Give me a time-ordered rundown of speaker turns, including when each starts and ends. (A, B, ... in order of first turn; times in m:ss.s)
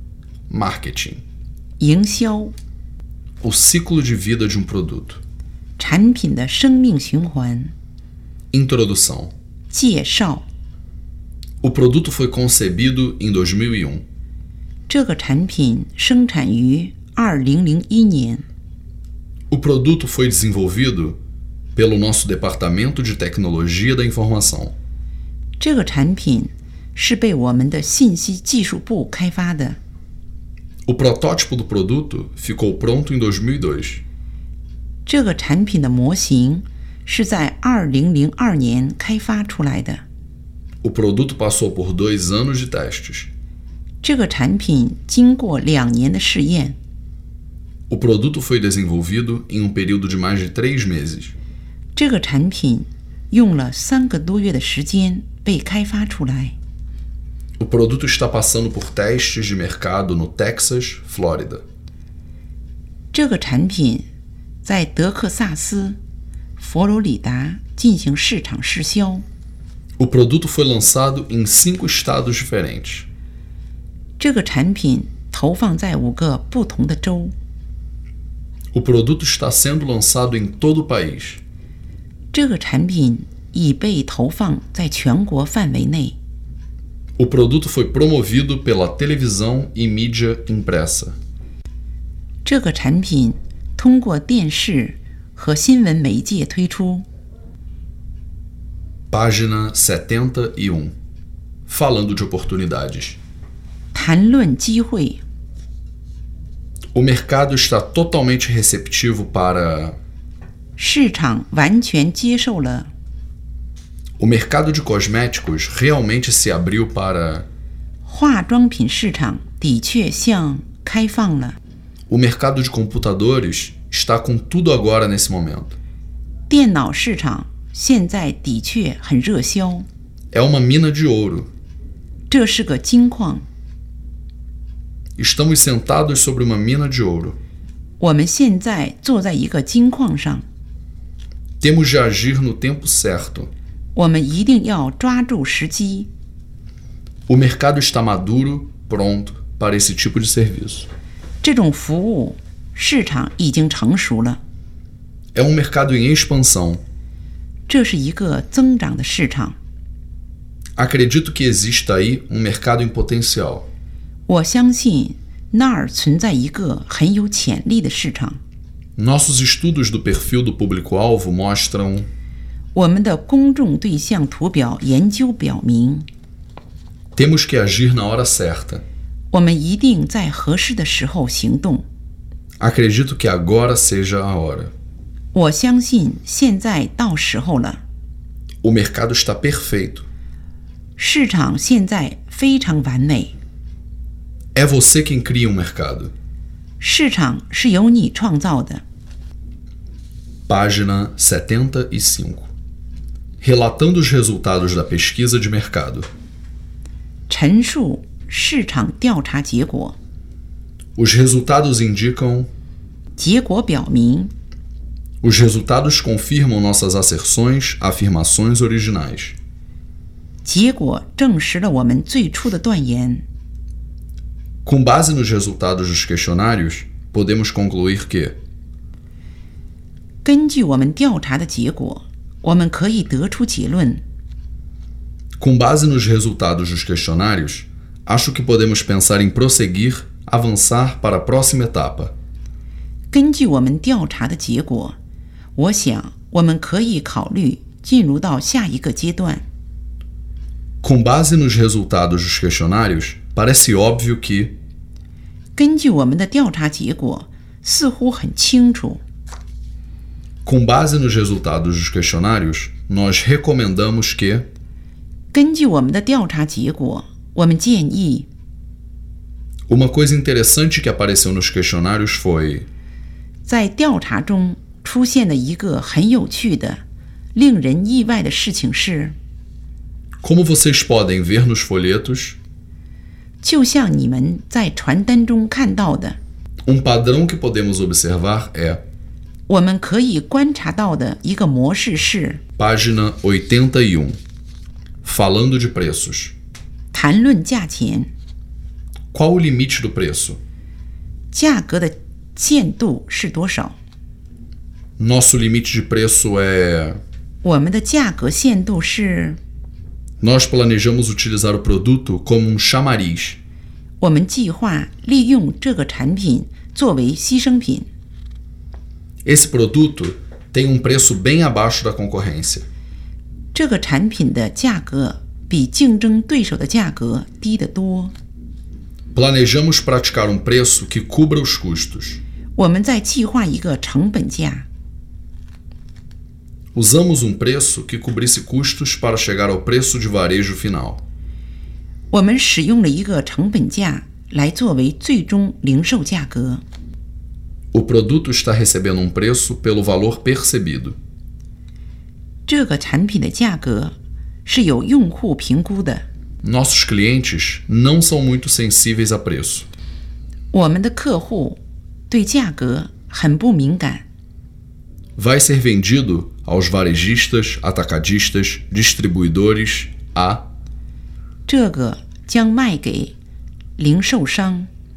0:00.5-0:01.2 A
0:01.8-0:02.5 B
0:03.4-0:05.2 A
0:05.8-0:07.7 B
0:08.5-0:09.3 A
0:09.7-0:10.5 B
0:11.6-0:14.0 A
0:14.9-0:18.4 B
0:19.5-0:21.2 A
0:21.7-0:24.7 A
0:25.6-0:29.8 B
0:30.8-0:34.0 A
0:35.0-0:40.0 B
0:40.8-0:43.3 A
0:44.0-0:46.8 B
0:47.9-0:51.3 A
0:51.9-0:56.5 B
0:57.6-1:01.6 A
1:03.1-1:04.0 B
1:04.6-1:06.0 B
1:06.6-1:09.2 B
1:10.0-1:13.1 A
1:14.2-1:17.3 B
1:18.7-1:21.4 A
1:22.3-1:26.2 B
1:27.2-1:31.2 A
1:32.4-1:37.0 B
1:39.1-1:40.9 A
1:41.7-1:43.2 A
1:43.9-1:45.2 B
1:46.9-1:50.0 A
1:50.8-1:52.9 B
1:54.2-1:57.4 A
1:58.0-2:01.6 B
2:02.1-2:05.7 A
2:06.5-2:09.9 B
2:10.3-2:11.5 A
2:12.3-2:13.4 B
2:15.2-2:17.4 A
2:18.0-2:20.4 B
2:21.6-2:23.5 A
2:23.9-2:26.1 B
2:27.3-2:30.9 A
2:31.4-2:34.4 B
2:35.3-2:36.8 A
2:37.7-2:39.6 B
2:40.8-2:43.7 A
2:44.3-2:48.4 B
2:49.0-2:52.1 A
2:52.7-2:56.1 B
2:57.1-2:58.8 A
2:59.3-3:01.8 B
3:02.6-3:04.7 A
3:05.3-3:07.8 B
3:08.6-3:10.0 A
3:11.0-3:13.4 B
3:14.5-3:16.1 A
3:16.8-3:18.8 B
3:20.5-3:22.5 A
3:23.4-3:26.1 A
3:27.3-3:30.0 B
3:31.0-3:32.5 A
3:33.2-3:34.3 B
3:35.2-3:39.4 A
3:40.4-3:43.2 B
3:44.6-3:48.4 A
3:50.2-3:54.0 B
3:55.4-4:02.1 A
4:03.1-4:05.0 B
4:05.6-4:09.4 B
4:10.8-4:14.5 A
4:15.5-4:19.0 B
4:20.4-4:24.5 A
4:25.3-4:28.3 B
4:29.7-4:32.7 A
4:33.4-4:36.8 B
4:37.3-4:39.1 B
4:40.2-4:42.4 A
4:43.4-4:46.2 B
4:46.6-4:48.8 A
4:49.5-4:52.4 B
4:52.6-4:54.2 A
4:55.0-4:56.3 A
4:56.9-4:58.1 B
4:59.1-5:00.4 A
5:01.3-5:03.8 B
5:05.0-5:07.0 A
5:07.4-5:09.4 B
5:10.2-5:13.4 A
5:14.0-5:17.9 B
5:19.2-5:22.7 A
5:23.5-5:28.1 B
5:29.1-5:32.2 A
5:32.6-5:34.7 B
5:36.7-5:41.0 A
5:42.1-5:46.6 B
5:47.7-5:51.0 A
5:52.5-5:56.0 B
5:56.4-5:59.7 A
6:00.5-6:01.6 B
6:02.1-6:04.0 B
6:05.2-6:10.4 A
6:11.5-6:13.1 B
6:13.8-6:14.7 B